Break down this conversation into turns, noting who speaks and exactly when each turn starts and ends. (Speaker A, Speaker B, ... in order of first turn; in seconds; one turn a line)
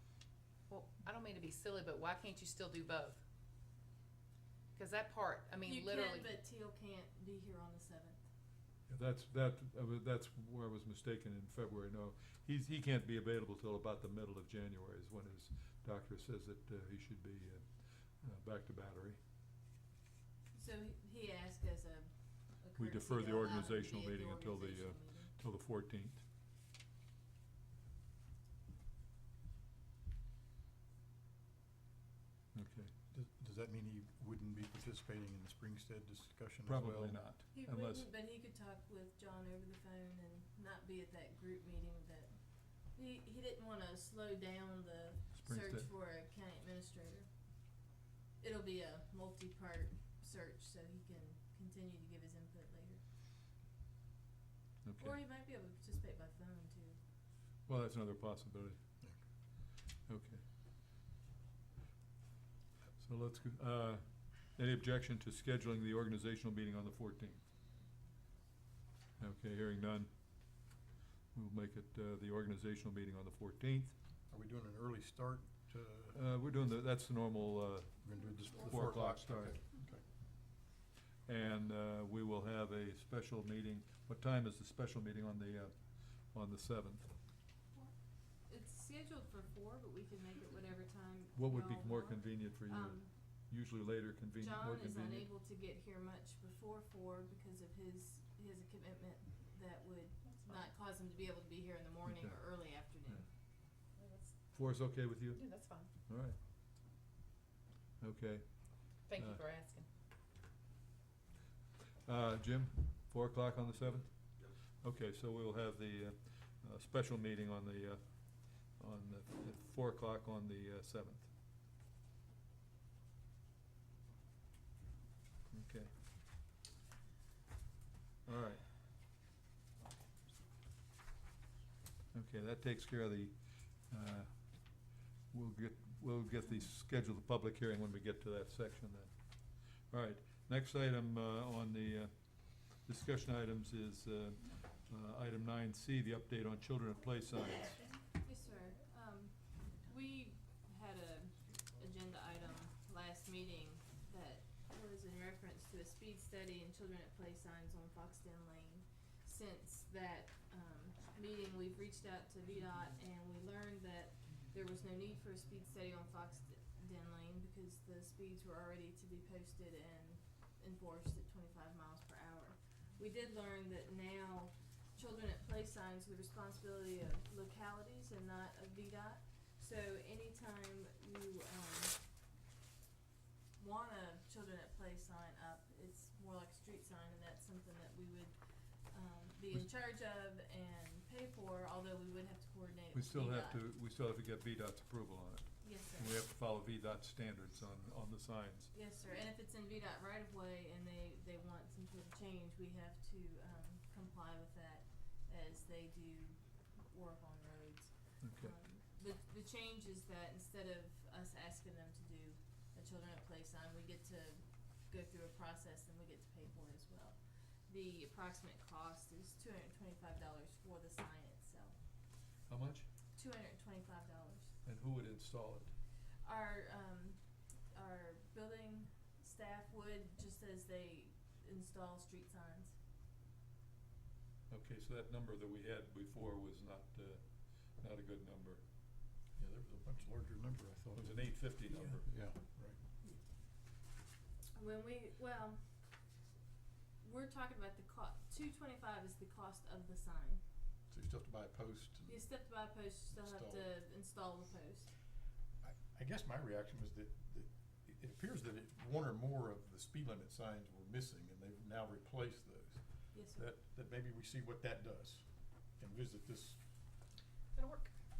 Speaker A: 0.7-3.2
Speaker A: 4.7-6.3
Speaker B: 5.6-8.2
Speaker C: 8.9-19.2
Speaker B: 20.5-25.4
Speaker C: 22.8-26.2
Speaker C: 32.5-32.9
Speaker D: 33.1-37.2
Speaker C: 36.6-38.1
Speaker B: 37.5-47.3
Speaker C: 45.4-45.9
Speaker B: 48.4-53.0
Speaker C: 54.8-55.2
Speaker B: 55.0-57.0
Speaker C: 57.7-58.8
Speaker C: 60.1-60.4
Speaker C: 63.0-67.4
Speaker C: 69.2-70.8
Speaker C: 71.3-74.0
Speaker D: 74.3-76.5
Speaker C: 76.1-79.7
Speaker D: 78.0-80.1
Speaker C: 81.3-87.1
Speaker B: 88.4-93.1
Speaker C: 91.3-95.3
Speaker B: 94.4-103.2
Speaker A: 100.2-100.7
Speaker C: 102.1-102.5
Speaker A: 103.9-105.9
Speaker C: 104.5-106.4
Speaker C: 108.0-109.4
Speaker A: 109.1-109.9
Speaker C: 112.0-121.3
Speaker C: 125.5-125.9
Speaker C: 128.3-128.7
Speaker C: 132.1-133.3
Speaker C: 133.9-134.8
Speaker C: 135.3-139.1
Speaker C: 139.9-148.0
Speaker B: 148.1-182.0
Speaker B: 183.6-188.3
Speaker B: 188.9-193.6
Speaker C: 192.9-198.7
Speaker B: 195.6-196.2
Speaker B: 198.7-221.8
Speaker C: 208.2-208.6
Speaker C: 222.5-222.9
Speaker B: 223.2-224.5
Speaker C: 224.7-225.7
Speaker B: 226.2-232.8
Speaker C: 234.5-238.6
Speaker D: 239.3-242.8
Speaker C: 240.9-242.1
Speaker B: 244.6-245.8
Speaker B: 247.0-250.4
Speaker D: 250.9-253.7
Speaker B: 252.1-254.9
Speaker D: 255.6-266.6
Speaker B: 263.1-263.5
Speaker A: 267.5-267.9